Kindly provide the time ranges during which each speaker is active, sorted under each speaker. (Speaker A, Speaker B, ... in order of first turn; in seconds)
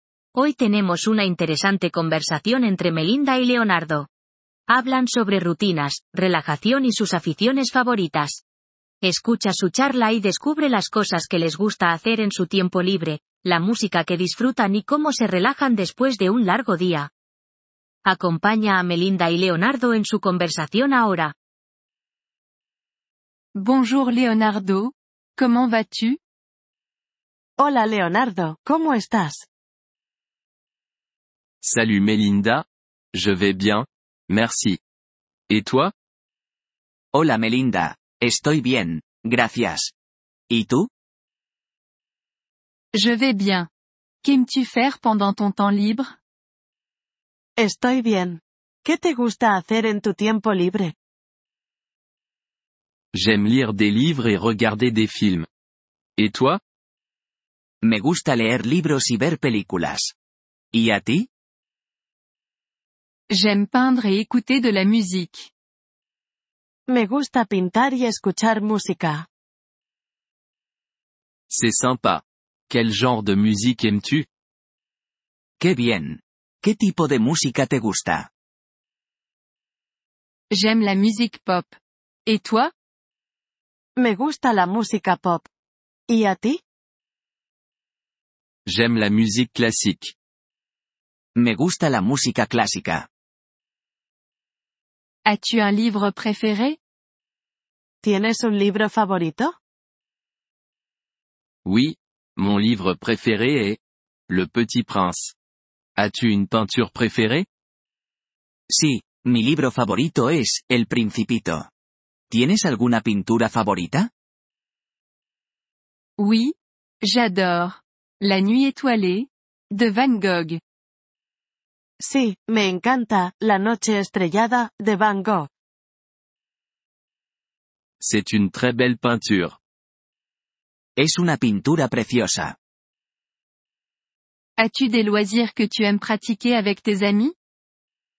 Speaker A: 0.3-4.1, 4.7-8.4, 9.0-17.1, 18.1-21.3
Speaker B: 23.6-26.2, 42.9-43.7, 44.2-46.1, 63.3-65.5, 80.5-81.7, 82.2-82.7, 95.2-96.8, 116.2-120.6, 134.6-137.3
Speaker C: 27.6-29.5, 47.6-51.0, 66.9-69.2, 84.0-85.5, 86.1-86.6, 98.0-99.5, 122.0-125.5
Speaker D: 31.6-34.8, 35.5-35.9, 53.1-55.5, 56.2-56.6, 71.5-74.3, 88.7-90.1, 101.6-105.3, 106.0-107.5, 128.0-129.6
Speaker E: 37.1-39.9, 40.5-40.9, 57.8-60.1, 60.7-61.3, 75.6-78.3, 91.3-93.1, 108.7-111.7, 112.3-114.1, 131.0-132.6